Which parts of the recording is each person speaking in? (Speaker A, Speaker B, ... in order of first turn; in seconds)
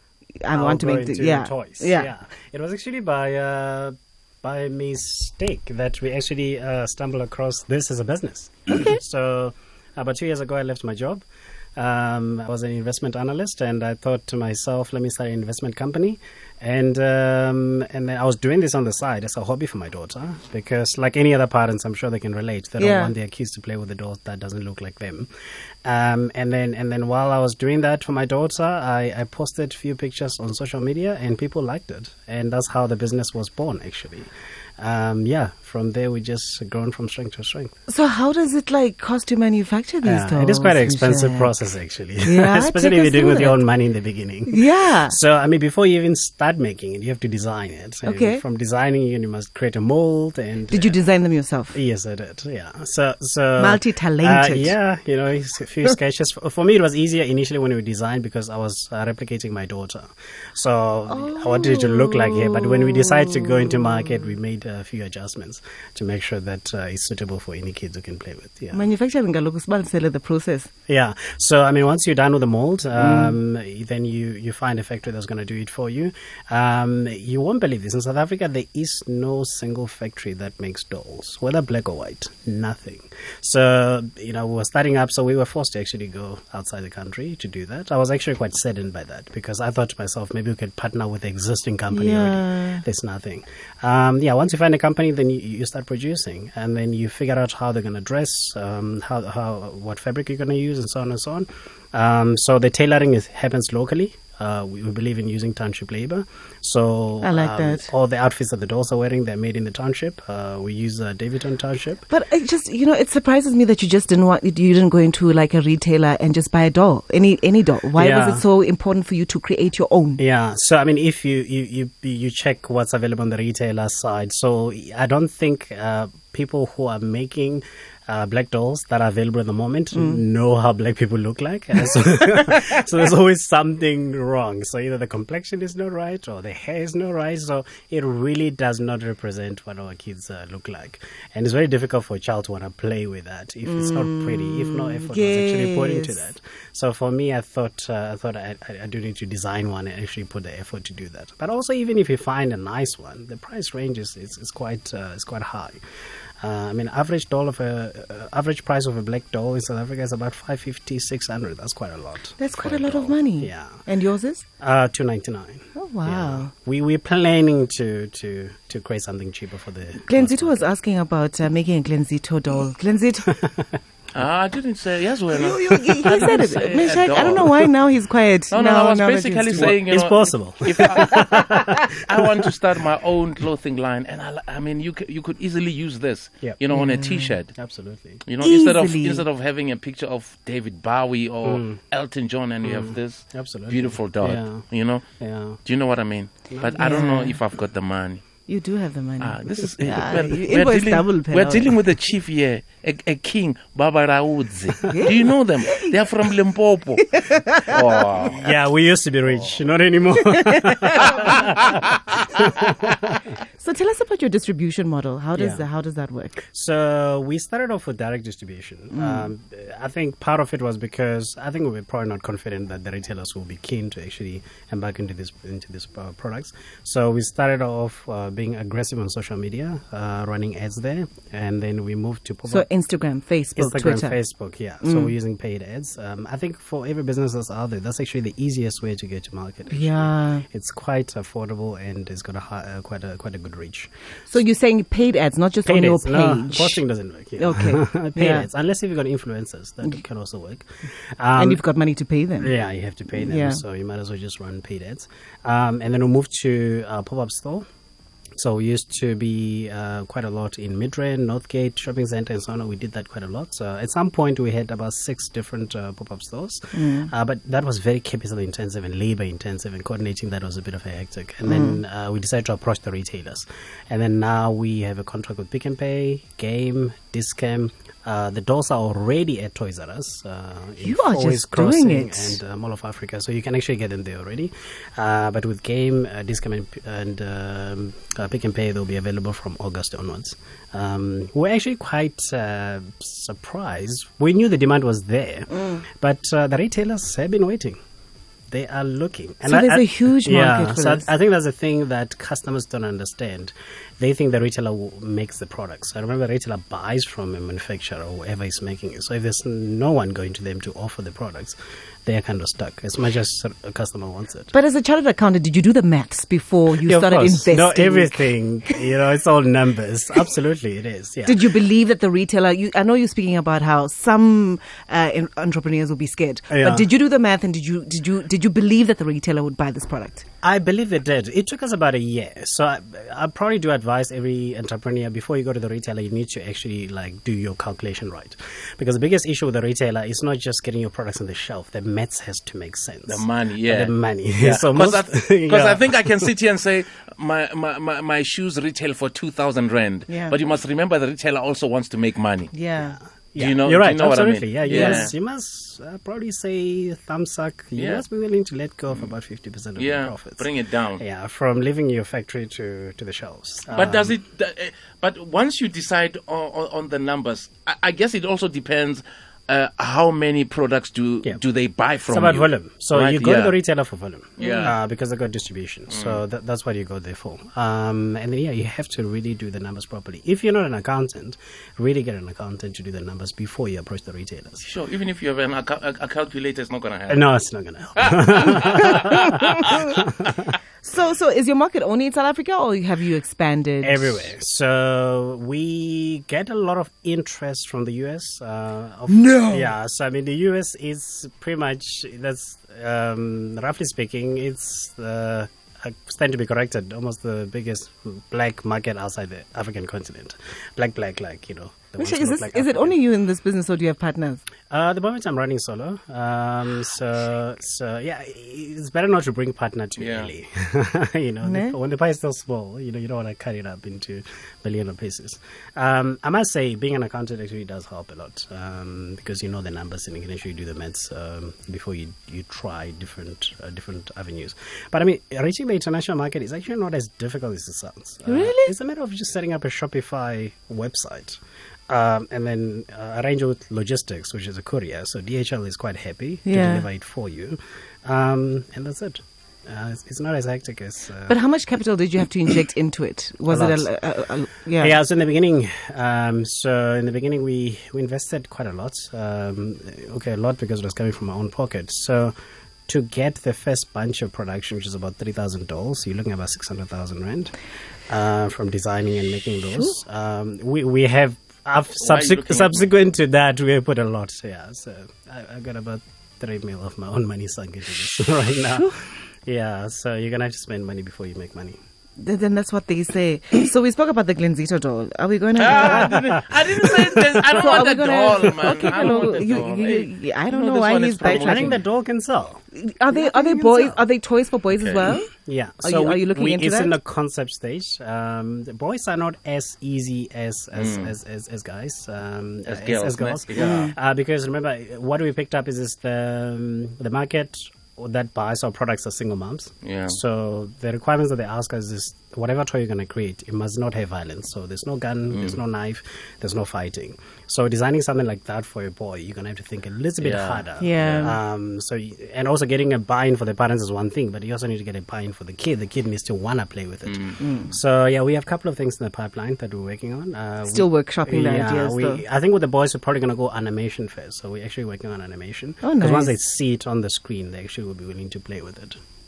Speaker A: 0.4-2.1, 8.7-9.0, 22.8-23.1, 37.9-41.5, 42.2-43.6, 44.5-45.2, 48.0-48.4, 50.7-51.8, 53.6-54.8, 61.1-64.3, 68.7-70.7, 73.0-73.4, 91.9-92.8, 107.2-107.9, 112.1-120.2, 129.9-130.2, 143.7-146.3, 162.4-164.4, 165.8-166.5, 170.0-173.3, 175.3-179.8, 186.7-187.4, 188.4-189.3, 196.8-197.4, 198.5-201.8, 204.9-205.9, 207.0-208.0, 210.2-211.6, 213.6-216.4, 218.9-219.3, 232.5-234.2, 234.8-235.1, 239.7-240.4, 244.3-246.8, 247.4-248.5, 251.4-252.6, 253.1-253.6, 266.7-267.1, 271.5-271.8, 280.8-282.4, 299.4-301.1, 314.5-318.9, 321.2-330.2, 350.1-350.4, 352.5-353.0, 354.7-355.1, 374.4-374.8, 390.8-394.3, 399.2-399.7, 412.0-414.4, 421.4-421.8, 438.3-438.7, 446.5-446.9, 451.3-455.0, 469.7-470.0, 478.7-478.9, 482.2-486.4, 487.6-491.8, 492.7-495.3, 495.8-497.0, 503.6-503.9, 520.8-521.4, 527.4-527.8, 530.7-532.2, 535.8-536.4
Speaker B: 0.5-11.2, 11.8-25.3, 25.9-34.3, 34.8-37.7, 40.0-51.0, 51.7-68.9, 70.9-112.0, 118.0-118.4, 120.2-155.8, 156.4-163.8, 164.6-170.6, 173.2-173.8, 179.6-182.5, 187.6-188.2, 191.4-191.8, 192.6-194.7, 195.2-195.6, 196.5-196.9, 208.2-213.2, 215.3-215.7, 216.4-232.7, 233.6-243.9, 245.7-251.6, 252.4-257.6, 258.4-297.8, 298.5-314.5, 316.8-321.6, 326.5-326.9, 330.4-346.3, 352.8-364.1, 372.1-384.7, 387.1-390.6, 393.8-413.0, 414.7-441.4, 441.9-451.4, 453.5-453.9, 454.8-462.3, 462.9-467.5, 468.1-481.8, 485.7-487.8, 488.5-489.3, 491.2-494.0, 495.4-539.0
Speaker C: 174.2-177.8, 178.5-187.5, 188.3-195.0, 195.7-198.2, 199.2-208.5, 209.3-209.6, 211.0-211.8, 343.1-352.5, 353.4-355.1, 357.8-358.0, 359.8-361.0, 363.7-373.6, 374.4-374.8, 375.9-376.2, 384.6-387.3, 388.0-389.9, 420.0-420.3, 472.0-472.9, 485.6-491.8, 494.7-495.2, 500.7-501.2, 502.7-503.9, 509.8-510.2, 515.3-515.6, 520.2-521.4, 527.1-527.4